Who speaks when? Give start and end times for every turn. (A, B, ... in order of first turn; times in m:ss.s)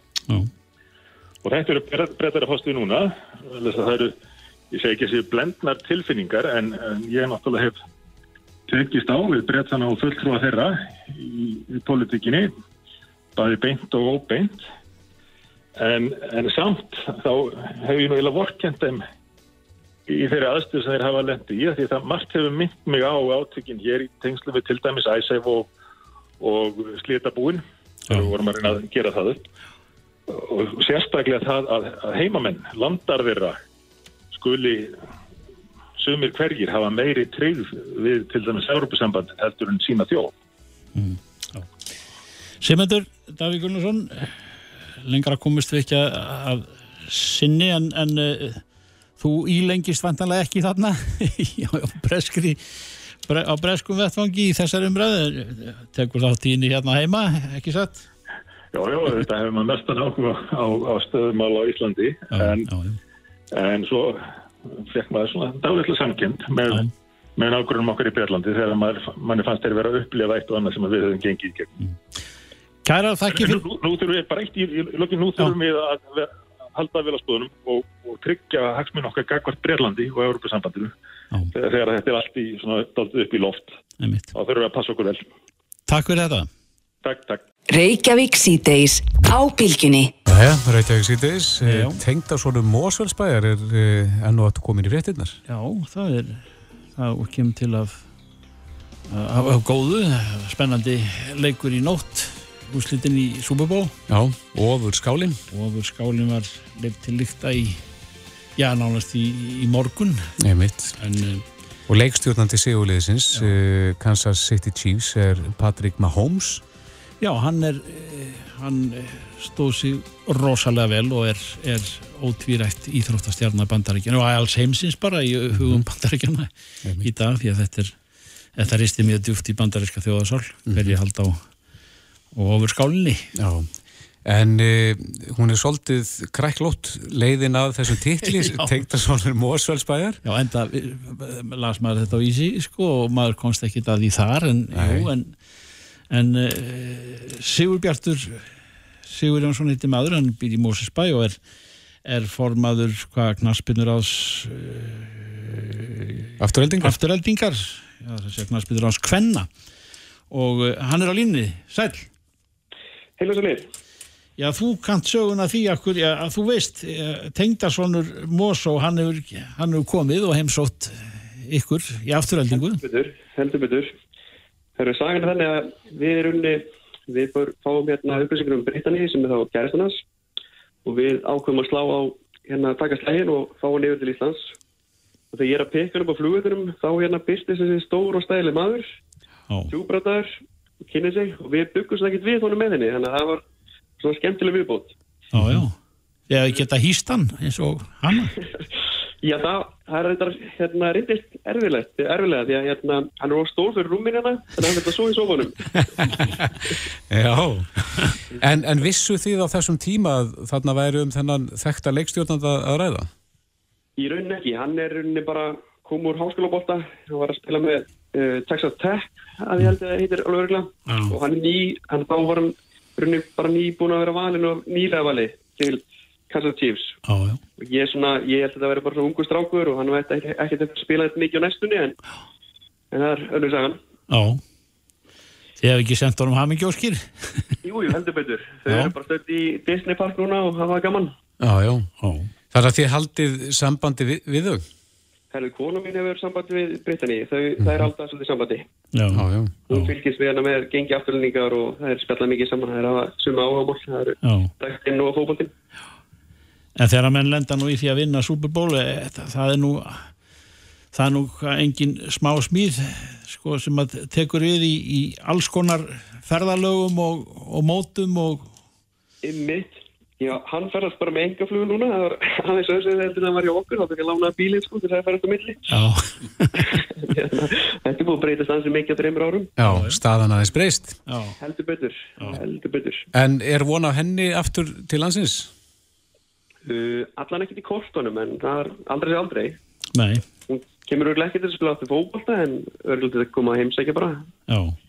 0:01.4-0:04.2 A
0:04.7-0:07.8 A
0:08.7-0:12.5 A
0:13.4-0:14.6 A
0:15.8-0:19.0 A
0:20.1-0:25.7 A
0:26.4-0:29.5 A
0:30.3-0:33.6 A
0:34.3-0:35.0 A
0:36.0-0:40.3 A
0:40.9-0:41.7 B
0:42.6-0:48.6 B
0:49.2-0:58.0 B
0:58.7-1:02.7 A
1:02.3-1:03.0 B
1:03.5-1:11.7 A
1:12.8-1:13.6 B
1:13.3-1:20.9 A
1:21.5-1:23.7 A
1:24.0-1:24.3 B
1:24.3-1:25.3 A
1:25.9-1:26.5 B
1:27.0-1:27.4 A
1:27.7-1:30.1 C
1:30.3-1:35.4 D
1:31.7-1:32.0 B
1:35.5-1:38.0 B
1:39.1-1:44.0 B
1:44.1-1:45.4 D
1:45.5-1:47.8 B
1:48.6-1:50.3 B
1:50.4-1:51.0 D
1:51.0-1:51.4 B
1:51.9-1:56.6 D
1:57.2-2:08.0 B
2:05.5-2:05.8 D
2:08.6-2:11.4 B
2:10.7-2:11.0 D
2:12.3-2:13.3 B
2:13.4-2:13.7 D
2:14.2-2:20.2 D
2:18.3-2:18.7 B
2:20.2-2:25.4 B
2:24.7-2:25.1 D
2:26.1-2:28.5 B
2:29.1-2:31.4 B
2:32.0-2:36.3 B
2:36.4-2:37.0 D
2:36.8-2:39.5 B
2:40.3-2:42.1 B
2:43.2-2:43.7 E
2:44.4-2:52.8 B
2:52.5-2:53.9 E
2:54.8-3:00.0 E
3:00.8-3:04.5 E
3:05.3-3:09.0 E
3:09.7-3:13.4 E
3:14.0-3:15.0 E
3:15.3-3:15.8 B
3:16.3-3:18.4 B
3:19.2-3:26.2 E
3:27.1-3:33.1 D
3:34.0-3:47.0 E
3:40.9-3:41.2 B
3:47.0-3:47.4 B
3:47.6-3:52.0 E
3:52.9-3:53.8 E
3:54.1-3:54.4 B
3:55.6-3:57.6 B
3:57.6-4:01.1 E
3:58.7-3:58.9 B
4:01.4-4:01.9 D
4:02.0-4:02.3 B
4:02.5-4:04.6 D
4:05.3-4:08.6 E
4:08.9-4:09.9 B
4:09.1-4:09.6 D
4:09.7-4:15.5 E
4:14.2-4:14.5 B
4:16.8-4:20.1 B
4:20.9-4:28.5 B
4:29.2-4:35.8 E
4:35.7-4:36.8 B
4:36.6-4:39.6 E
4:39.6-4:41.0 D
4:39.6-4:40.0 B
4:41.0-4:41.4 B
4:41.4-4:43.1 E
4:43.1-4:45.5 D
4:46.6-4:49.6 E
4:49.9-4:50.2 B
4:50.5-4:54.3 E
4:54.5-4:54.8 B